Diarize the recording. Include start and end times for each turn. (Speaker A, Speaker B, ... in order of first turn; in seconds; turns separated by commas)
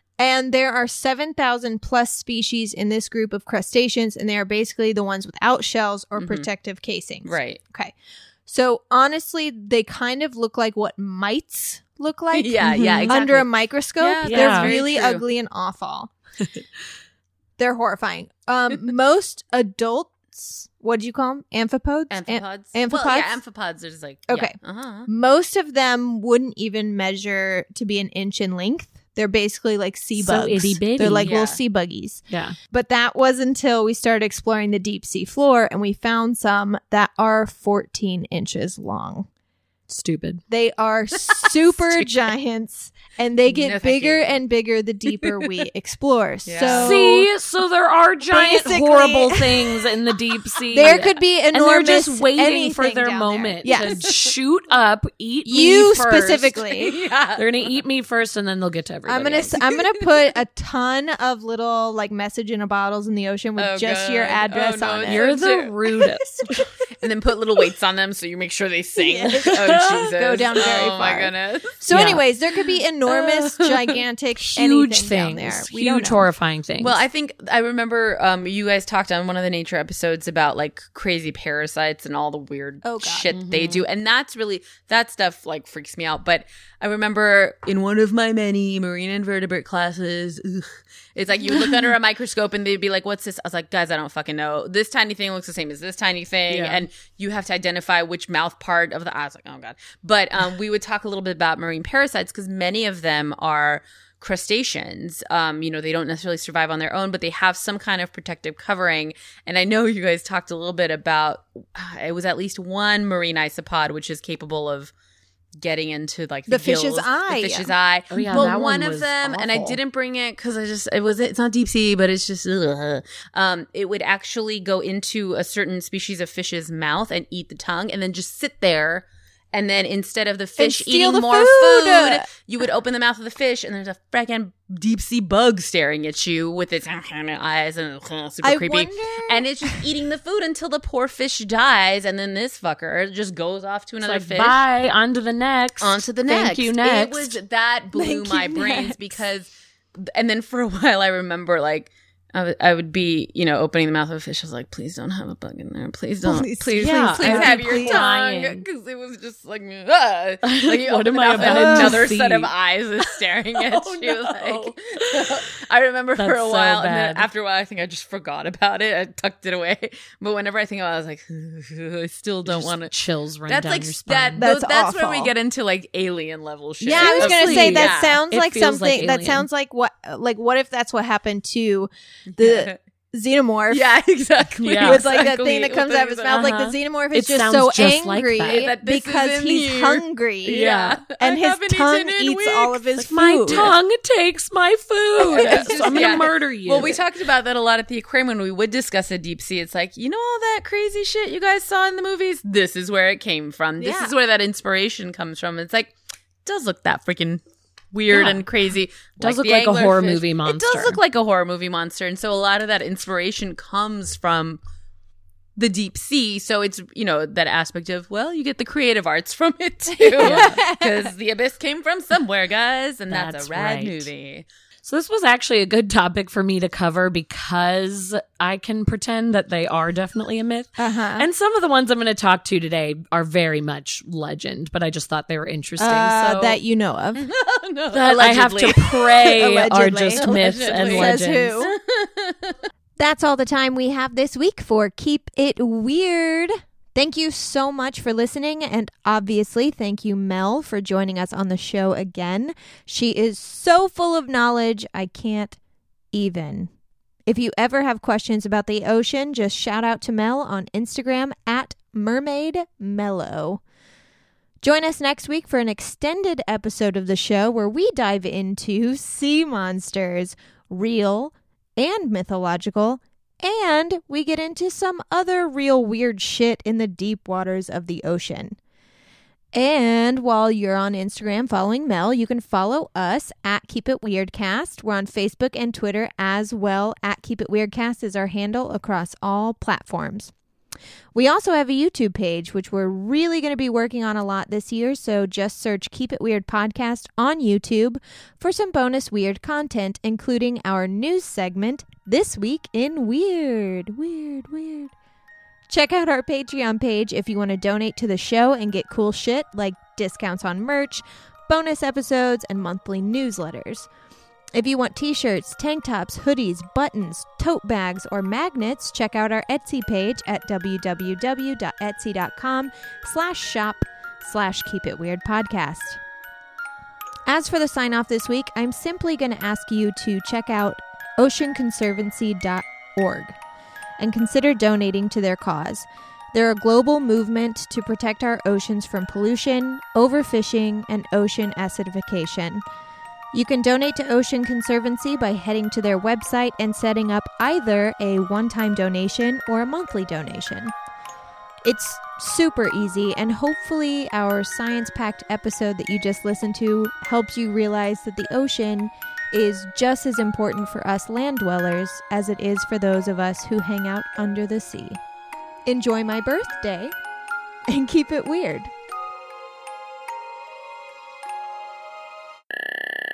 Speaker A: 0.2-7.9, Speaker B: 6.2-6.5, Speaker B: 7.2-7.6, Speaker A: 8.5-16.1, Speaker B: 12.3-13.5, Speaker C: 12.7-13.2, Speaker B: 14.0-15.2, Speaker C: 14.2-14.7, Speaker A: 17.6-23.4, Speaker B: 22.1-25.1, Speaker A: 24.3-24.6, Speaker A: 25.1-39.3, Speaker C: 30.2-31.3, Speaker B: 31.2-31.6, Speaker C: 32.3-32.6, Speaker C: 39.9-40.4, Speaker A: 40.5-47.3, Speaker B: 41.3-42.1, Speaker B: 43.5-44.4, Speaker B: 46.5-47.0, Speaker C: 46.7-56.6, Speaker A: 48.3-49.8, Speaker A: 50.7-54.0, Speaker B: 53.7-54.4, Speaker A: 55.5-56.9, Speaker B: 56.7-57.7, Speaker C: 57.4-59.6, Speaker A: 59.1-65.3, Speaker B: 59.6-60.0, Speaker B: 63.6-65.8, Speaker C: 65.1-66.7, Speaker B: 67.0-72.2, Speaker A: 69.0-69.5, Speaker C: 69.3-70.1, Speaker A: 70.2-76.2, Speaker C: 71.9-72.2, Speaker B: 73.1-73.6, Speaker C: 74.4-77.0, Speaker B: 76.8-114.9, Speaker A: 82.8-83.3, Speaker C: 83.3-83.9, Speaker C: 96.5-96.8, Speaker B: 115.6-144.6, Speaker A: 116.5-118.5, Speaker C: 118.1-119.8, Speaker A: 130.6-132.3, Speaker A: 138.4-139.8, Speaker C: 144.0-147.4, Speaker B: 145.8-172.9, Speaker A: 147.9-149.2, Speaker A: 156.2-158.0, Speaker C: 156.8-158.7, Speaker C: 160.4-162.5, Speaker A: 161.4-162.0, Speaker C: 163.6-165.4, Speaker C: 166.2-167.3, Speaker C: 172.5-174.5, Speaker B: 173.5-178.2, Speaker A: 174.4-175.3, Speaker A: 176.8-183.8, Speaker C: 176.9-179.5, Speaker B: 182.3-182.8, Speaker B: 183.7-186.5, Speaker C: 184.6-185.0, Speaker A: 184.8-193.7, Speaker C: 186.3-188.7, Speaker B: 188.5-192.8, Speaker C: 190.5-191.0, Speaker C: 193.0-197.0, Speaker B: 193.5-193.8, Speaker B: 195.2-205.9, Speaker A: 203.8-204.1, Speaker B: 206.4-214.6, Speaker C: 208.1-208.4, Speaker C: 209.2-211.0, Speaker B: 215.6-224.5, Speaker A: 220.0-220.9, Speaker C: 220.2-220.6, Speaker C: 223.1-224.1, Speaker C: 224.8-236.6, Speaker A: 230.8-231.3, Speaker A: 235.8-237.3, Speaker B: 237.2-239.4, Speaker C: 237.9-241.6, Speaker A: 239.4-241.7, Speaker B: 240.2-242.6, Speaker A: 243.0-255.6, Speaker A: 256.1-256.7, Speaker A: 257.3-263.6, Speaker A: 264.6-278.6, Speaker A: 279.5-290.3, Speaker A: 291.1-304.9, Speaker A: 305.7-313.9, Speaker A: 314.6-326.0, Speaker A: 327.3-333.4, Speaker A: 334.0-342.6, Speaker A: 343.3-350.7, Speaker A: 351.6-365.0, Speaker A: 365.7-366.9, Speaker A: 367.7-368.7